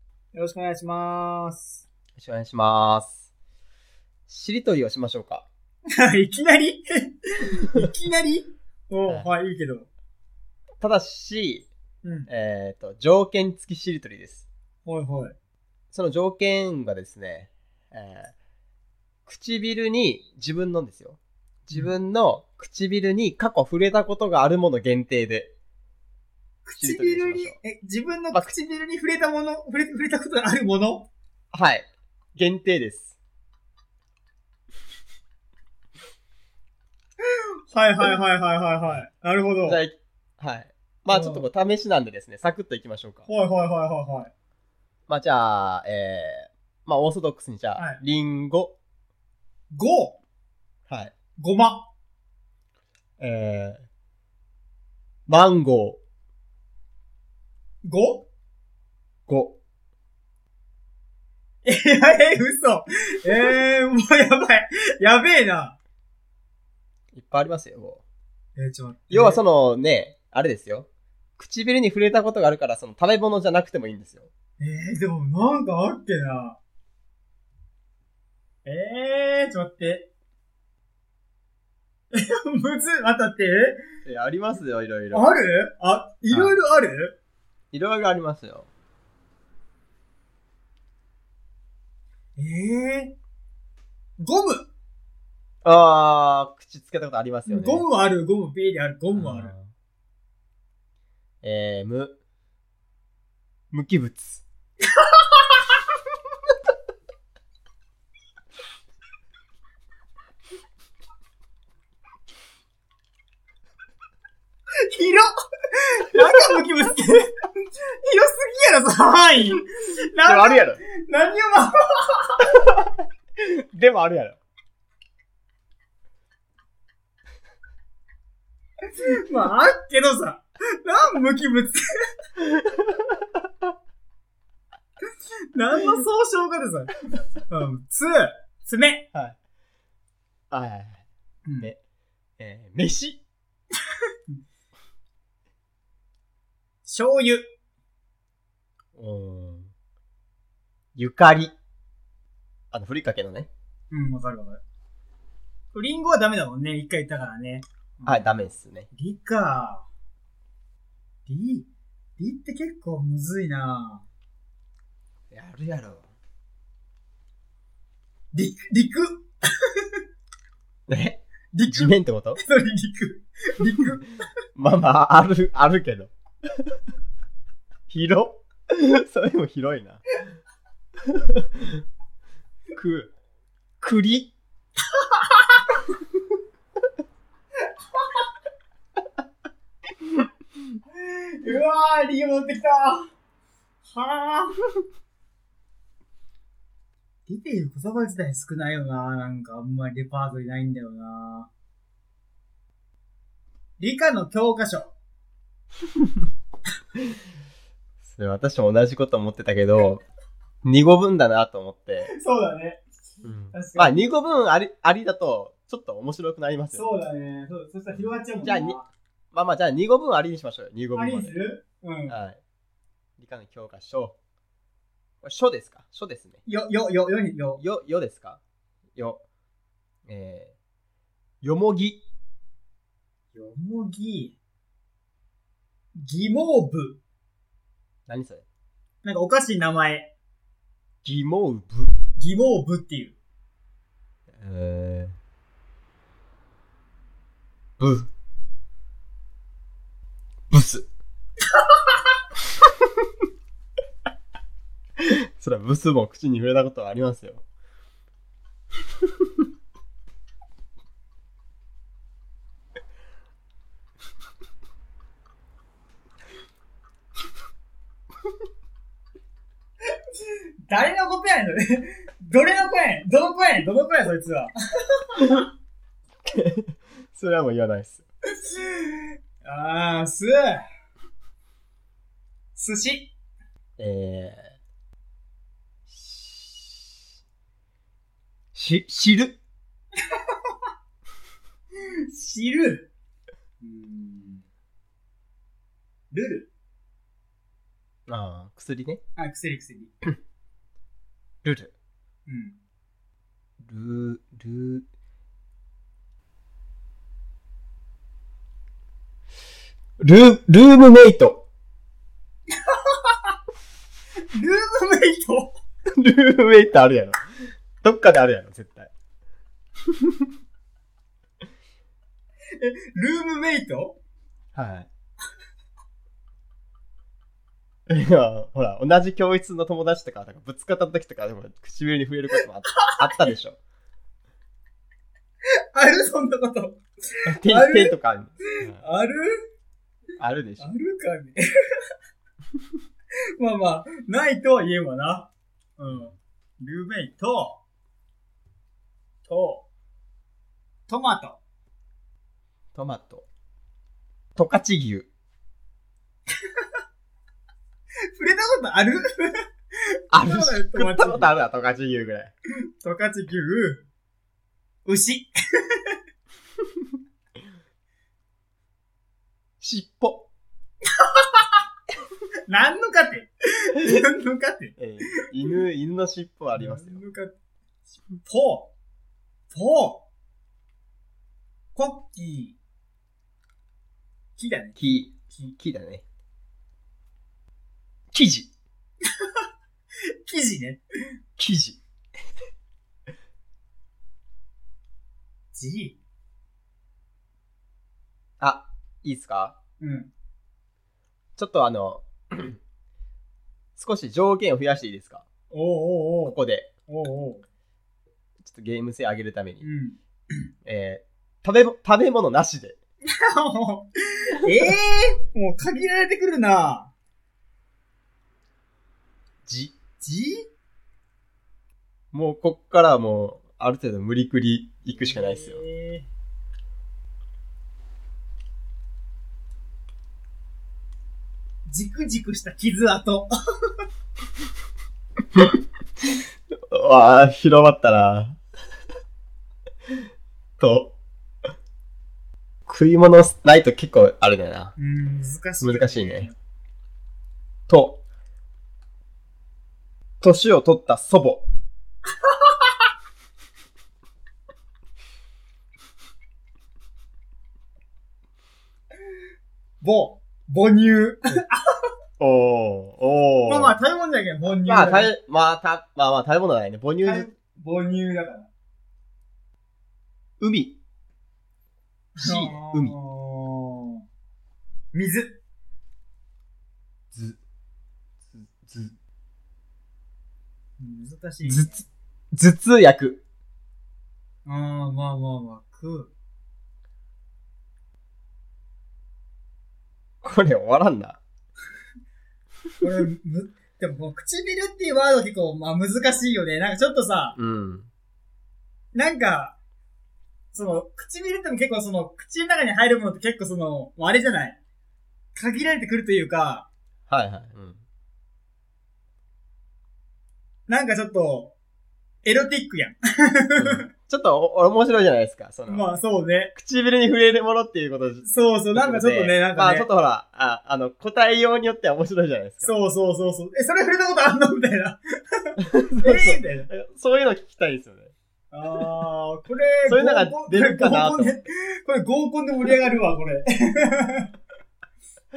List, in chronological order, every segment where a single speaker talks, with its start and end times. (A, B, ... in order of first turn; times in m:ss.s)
0:00.3-0:01.8 A
0:02.2-0:03.2 B
0:04.3-0:05.5 B
0:06.0-0:09.9 A
0:10.8-0:11.7 B
0:12.0-0:12.3 A
0:12.3-0:14.5 B
0:14.9-0:15.4 A
0:15.9-0:18.3 B
0:19.3-0:25.5 B
0:26.6-0:31.1 A
0:26.8-0:27.6 B
0:31.5-0:33.2 B
0:37.7-0:39.8 A
0:39.7-0:43.3 B
0:41.1-0:41.5 A
0:43.3-0:44.3 A
0:45.1-0:48.8 B
0:49.7-0:50.2 A
0:50.9-0:51.1 B
0:51.4-0:51.9 A
0:53.2-0:53.8 B
0:55.3-0:56.0 B
0:57.8-0:58.3 A
0:59.3-0:59.6 B
1:01.6-1:05.8 A
1:07.1-1:08.0 B
1:08.6-1:09.4 A
1:09.1-1:14.3 B
1:14.6-1:16.6 A
1:18.6-1:20.1 A
1:22.1-1:23.8 A
1:24.0-1:25.3 B
1:25.1-1:27.2 A
1:26.3-1:26.6 B
1:27.7-1:28.7 B
1:32.4-1:33.2 A
1:34.2-1:34.7 A
1:35.6-1:37.8 B
1:37.5-1:39.5 A
1:39.1-1:39.7 B
1:41.4-1:42.2 B
1:43.7-1:44.4 B
1:45.0-1:45.6 A
1:54.8-2:02.5 A
2:00.2-2:00.8 B
2:02.6-2:04.4 B
2:09.0-2:11.9 A
2:12.7-2:13.1 B
2:15.5-2:19.1 A
2:20.5-2:21.0 B
2:21.5-2:21.7 A
2:22.4-2:23.2 B
2:26.9-2:27.4 A
2:29.0-2:29.7 B
2:31.0-2:31.5 B
2:32.7-2:33.5 B
2:33.9-2:34.6 A
2:35.7-2:38.3 A
2:38.0-2:38.9 B
2:38.9-2:39.9 A
2:41.3-2:44.0 A
2:45.3-2:46.1 B
2:48.3-2:50.0 A
2:50.9-2:52.4 B
2:51.5-2:54.2 A
2:54.6-2:56.1 B
2:57.9-3:00.0 B
3:01.1-3:01.8 B
3:02.8-3:03.1 B
3:03.8-3:04.3 B
3:05.1-3:05.6 A
3:10.9-3:13.1 A
3:13.8-3:14.7 A
3:17.3-3:21.5 A
3:23.8-3:24.9 A
3:28.0-3:30.0 B
3:30.6-3:32.1 B
3:32.0-3:32.8 A
3:33.2-3:36.9 B
3:33.5-3:34.0 A
3:36.7-3:38.9 A
3:37.9-3:38.8 B
3:39.3-3:41.4 B
3:41.0-3:42.2 A
3:42.1-3:42.4 B
3:43.2-3:44.2 B
3:45.2-3:46.4 B
3:46.5-3:47.6 A
3:47.6-3:48.4 B
3:49.0-3:49.2 B
3:50.1-3:50.6 B
3:51.4-3:52.0 B
3:53.3-3:54.4 A
3:56.0-3:57.0 A
3:58.1-3:58.4 B
3:59.0-4:00.1 A
4:01.0-4:01.9 B
4:02.2-4:03.2 A
4:04.4-4:05.2 B
4:07.8-4:08.1 B
4:10.5-4:10.9 B
4:15.0-4:17.4 B
4:30.2-4:35.4 A
4:36.3-4:38.0 B
4:38.4-4:40.6 A
4:42.6-4:43.1 A
4:43.8-4:44.6 B
4:45.9-4:46.8 B
4:48.6-4:49.4 B
4:52.1-4:52.9 A
4:53.6-4:54.4 A
4:56.1-4:56.5 A
4:58.1-4:59.0 B
4:59.2-4:59.9 A
5:01.4-5:01.7 B
5:02.3-5:02.6 A
5:03.6-5:04.8 B
5:10.0-5:11.4 B
5:12.7-5:13.3 A
5:14.3-5:15.6 A
5:16.0-5:17.2 B
5:17.8-5:18.9 B
5:22.6-5:24.0 A
5:24.6-5:24.9 B
5:27.9-5:33.6 B
5:35.7-5:36.8 A
5:37.3-5:38.8 B
5:37.4-5:38.0 A
5:38.6-5:39.4 A
5:40.2-5:40.7 B
5:40.6-5:41.4 A
5:43.4-5:47.6 A
5:49.3-5:49.6 A
5:50.9-5:51.4 A
5:52.8-5:53.2 B
5:54.4-5:55.1 B
5:58.2-5:59.4 A
6:00.1-6:01.3 A
6:00.1-6:02.3 B
6:02.8-6:03.8 A
6:04.9-6:06.0 A
6:09.6-6:10.3 B
6:11.0-6:11.5 A
6:12.5-6:14.8 A
6:14.8-6:17.0 B
6:16.6-6:17.4 A
6:18.3-6:18.7 A
6:19.5-6:20.1 A
6:21.8-6:22.6 A
6:24.4-6:25.5 A
6:24.8-6:26.0 B
6:28.1-6:28.5 B
6:30.2-6:30.8 A
6:31.4-6:31.8 B
6:35.5-6:36.0 A
6:38.4-6:39.6 B
6:39.8-6:40.1 A
6:41.4-6:42.6 B
6:43.8-6:45.2 B
6:45.5-6:46.4 A
6:46.3-6:46.7 B
6:46.9-6:47.4 A
6:48.4-6:49.6 B
6:49.6-6:50.5 A
6:50.7-6:52.8 B
6:53.2-6:56.9 A
6:59.5-6:59.7 B
7:00.0-7:00.5 A
7:02.1-7:05.6 B
7:05.0-7:06.1 A
7:11.7-7:13.3 A
7:16.6-7:18.4 B
7:20.6-7:21.0 B
7:22.7-7:24.7 B
7:24.8-7:26.4 A
7:25.6-7:26.3 B
7:27.7-7:28.0 B
7:30.2-7:31.5 B
7:39.8-7:41.9 A
7:42.2-7:43.8 B
7:43.5-7:45.1 A
7:44.5-7:47.3 B
7:47.0-7:48.5 A
7:50.4-7:50.8 B
7:52.2-7:54.0 A
7:52.2-7:53.0 B
7:54.9-7:55.4 A
7:57.1-7:57.4 B
7:58.4-7:59.0 B
8:00.8-8:01.8 A
8:01.4-8:03.2 B
8:04.5-8:06.1 A
8:10.2-8:11.2 B
8:12.8-8:17.4 A
8:17.4-8:17.9 B
8:18.9-8:19.6 A
8:20.5-8:24.6 A
8:25.4-8:26.7 A
8:27.1-8:27.8 B
8:30.7-8:31.6 A
8:32.2-8:33.9 A
8:33.6-8:35.9 B
8:35.7-8:36.5 A
8:36.5-8:42.7 B
8:38.2-8:39.9 A
8:42.6-8:46.7 A
8:45.7-8:48.1 B
8:48.5-8:54.3 A
8:49.9-8:51.4 B